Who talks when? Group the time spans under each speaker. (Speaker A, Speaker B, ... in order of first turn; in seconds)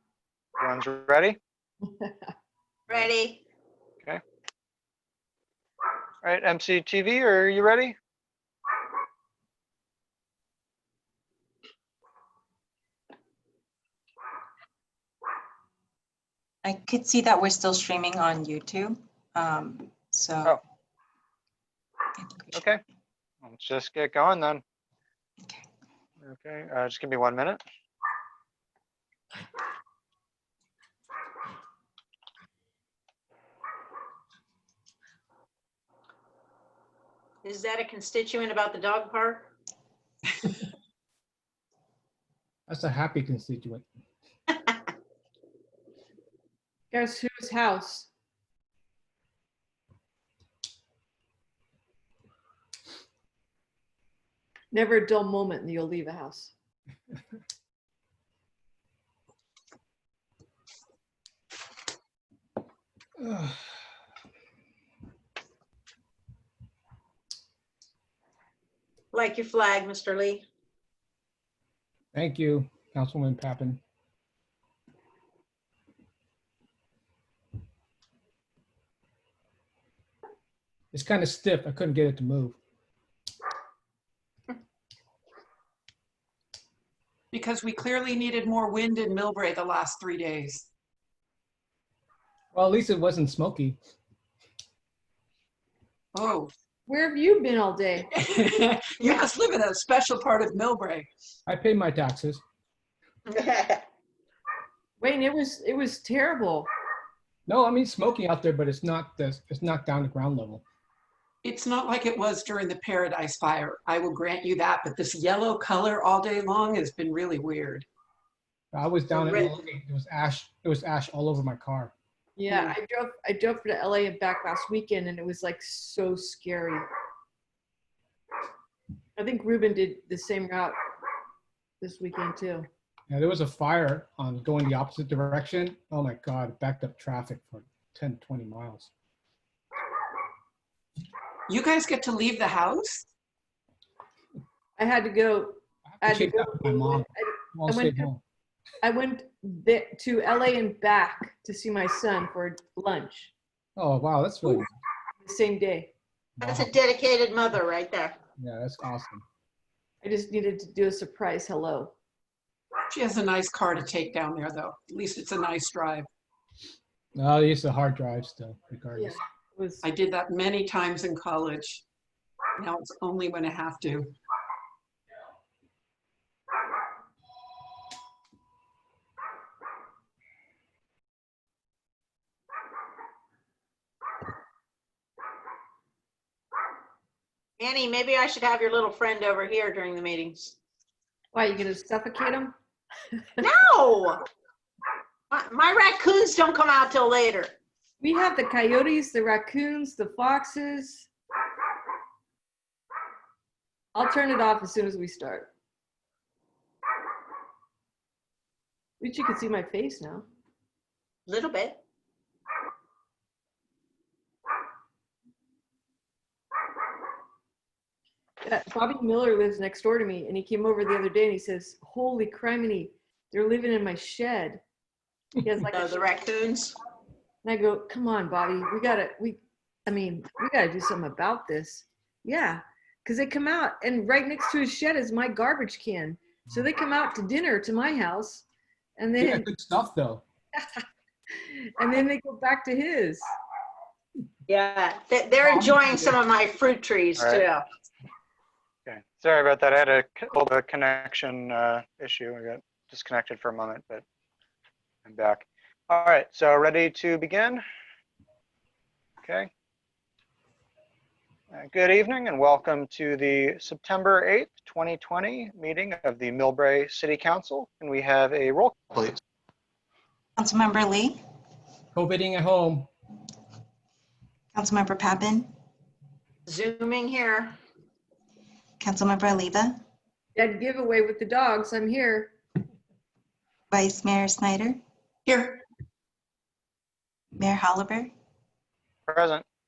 Speaker A: 0.6-1.4, 6.2-8.0, 23.4-24.6, 26.2-27.6, 247.2-247.4, 248.9-254.0, 255.1-257.6, 259.2-259.5, 261.5-269.2, 289.1-289.4
Speaker B: 2.9-3.4, 37.4-39.5, 69.1-70.5, 99.0-99.3, 103.3-103.8, 119.1-119.5, 156.4-158.2, 187.6-190.6, 193.4-194.2, 195.3-197.5, 211.3-211.8, 225.7-226.8, 244.5-247.6, 276.5-277.6
Speaker C: 16.6-20.6, 22.2-22.7, 270.4-271.2, 274.5-275.5, 278.8-279.8, 283.7-284.8, 287.4-288.1
Speaker D: 42.7-43.9, 63.2-63.6, 72.1-73.8, 80.9-82.6, 92.5-93.8, 101.5-102.4, 107.5-110.6, 118.7-121.9, 133.1-138.9, 145.9-148.2, 153.8-154.7, 156.4-156.7, 158.4-159.2, 167.2-169.2, 239.2-240.2, 271.9-272.9
Speaker E: 46.9-48.1, 54.7-56.5, 96.9-98.1, 105.0-106.7, 122.4-126.9, 129.2-130.8, 131.8-132.7, 144.8-148.1, 148.8-153.3, 155.2-155.9, 160.0-161.9, 169.0-169.8, 191.3-192.5, 198.0-201.1, 203.9-205.5, 209.0-210.3, 218.4-224.6, 225.4-226.0, 227.4-238.5, 239.0-239.5, 241.4-243.2, 280.4-282.4
Speaker F: 87.3-90.7, 96.1-96.5, 98.1-101.1, 111.4-117.9, 122.5-122.8, 141.5-143.1, 162.9-166.1, 169.8-171.8, 172.6-174.1, 285.3-285.6